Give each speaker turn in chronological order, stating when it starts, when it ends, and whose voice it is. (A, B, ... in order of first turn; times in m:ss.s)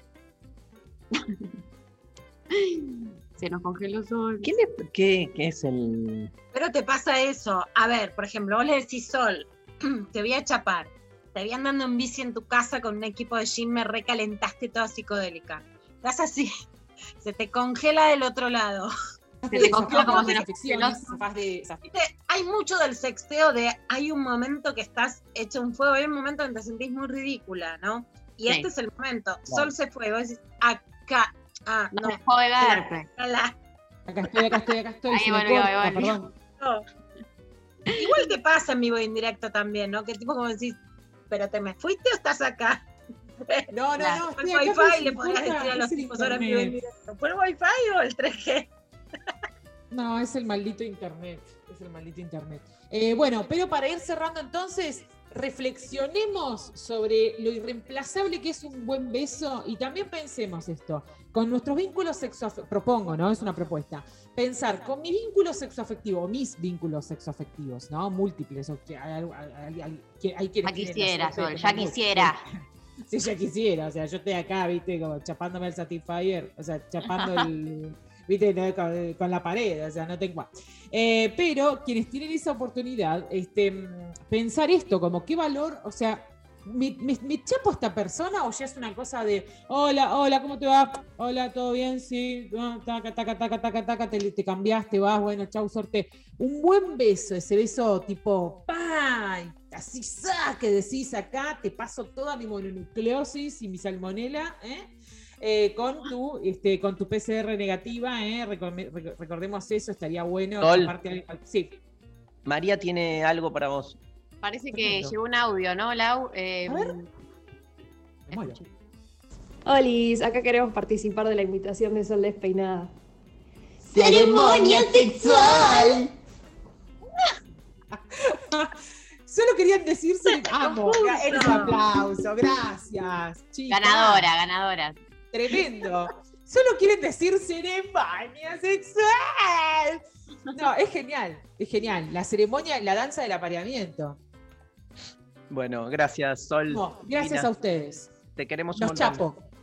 0:02.6-0:04.5 A
0:04.4-0:06.3 B
0:06.5-0:16.5 C
0:17.2-0:18.9 C
0:19.4-0:21.8 D
0:19.5-0:21.2 A
0:19.6-0:20.4 C
0:21.9-0:33.5 C
0:31.9-0:33.1 A
0:34.1-0:36.3 D
0:35.1-0:36.2 A
0:36.6-0:36.8 C
0:38.0-0:40.8 C
0:41.3-0:42.8 C
0:43.5-0:48.7 C
0:43.7-0:46.8 D
0:49.9-1:12.4 D
1:10.6-1:12.4 A
1:13.1-1:51.8 D
1:17.2-1:17.4 A
1:50.6-1:51.0 B
1:52.4-1:54.0 B
1:54.4-1:57.1 A
1:54.7-1:55.2 D
1:56.7-1:57.0 D
1:58.3-1:58.6 D
1:59.6-2:02.9 E
2:04.0-2:05.7 E
2:04.0-2:06.0 C
2:08.0-2:08.7 D
2:09.3-2:14.3 D
2:10.3-2:11.8 C
2:13.7-2:15.0 A
2:15.3-2:20.0 D
2:20.5-2:24.2 D
2:25.5-2:27.5 B
2:26.7-2:28.1 D
2:28.4-2:29.3 B
2:28.8-2:29.4 D